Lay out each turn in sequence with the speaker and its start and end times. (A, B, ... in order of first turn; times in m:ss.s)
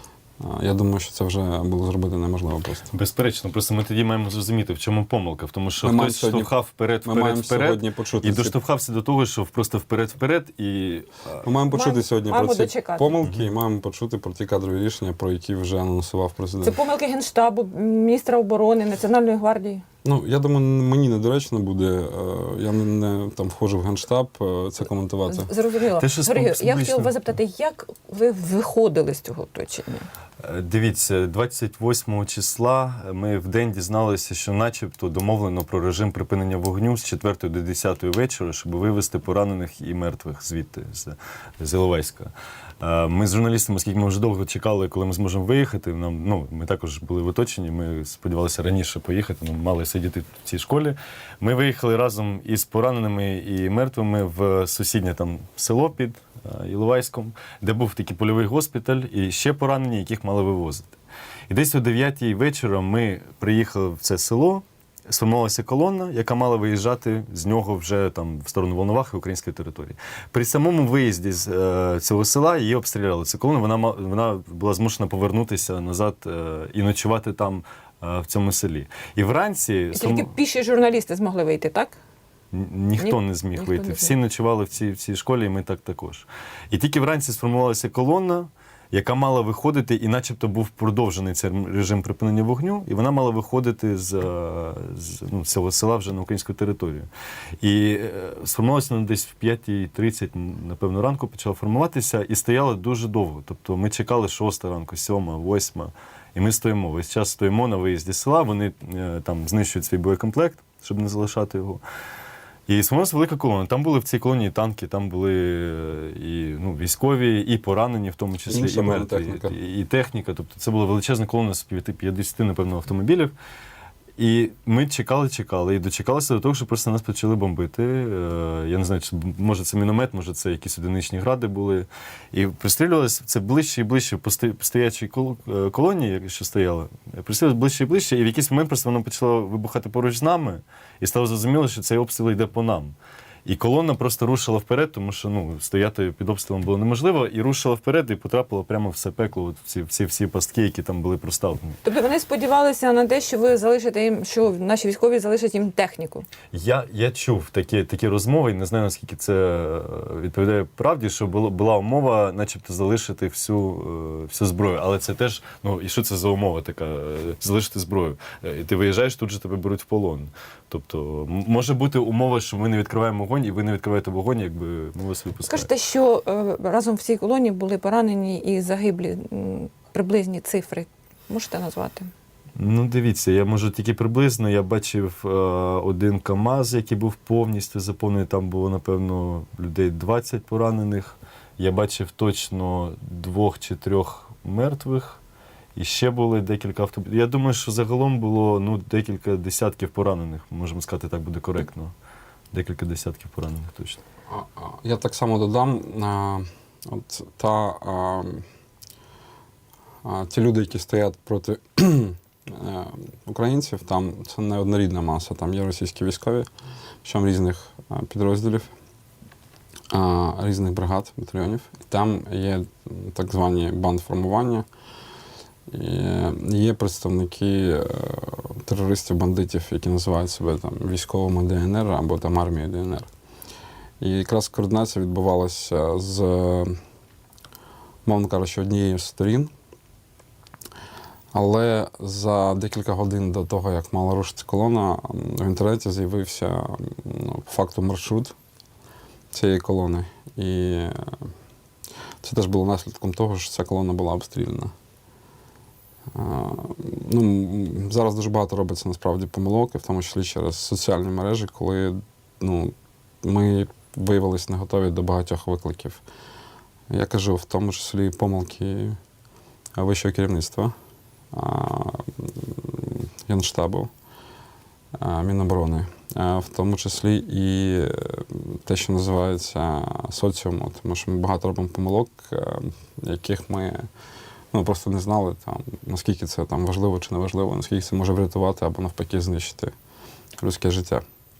0:00.4-0:02.9 A
0:02.9-0:11.4 B
0:05.8-0:06.5 A
0:07.0-0:08.5 A
0:11.4-0:16.8 A
0:11.7-0:13.1 C
0:16.6-0:19.8 C
0:20.0-0:25.5 A
0:25.3-0:30.1 C
0:26.0-0:27.3 B
0:30.4-1:00.9 B
1:01.5-1:20.3 B
1:19.9-1:22.0 C
1:22.5-1:37.1 B
1:23.0-1:24.1 C
1:37.6-1:51.8 B
1:52.7-2:03.3 B
1:58.5-1:59.5 A
2:04.2-2:22.9 B
2:23.4-2:31.8 B
2:31.8-2:36.3 C
2:36.5-2:55.7 B
2:55.4-3:02.1 C
3:02.6-3:15.2 B
3:15.8-3:21.9 B
3:22.5-3:24.0 B
3:24.3-3:28.4 A
3:30.0-3:36.5 A
3:37.0-3:38.7 A
3:39.9-3:44.7 A
3:45.7-3:53.1 A
3:54.0-3:56.8 A
3:58.0-3:59.5 A
4:01.3-4:08.4 A
4:09.3-4:11.3 A
4:12.2-4:14.7 A
4:16.1-4:26.0 A
4:26.9-4:29.0 A
4:29.8-4:30.7 A
4:31.3-4:33.9 A
4:35.0-4:43.9 A
4:44.5-4:49.7 A
4:50.4-4:51.0 A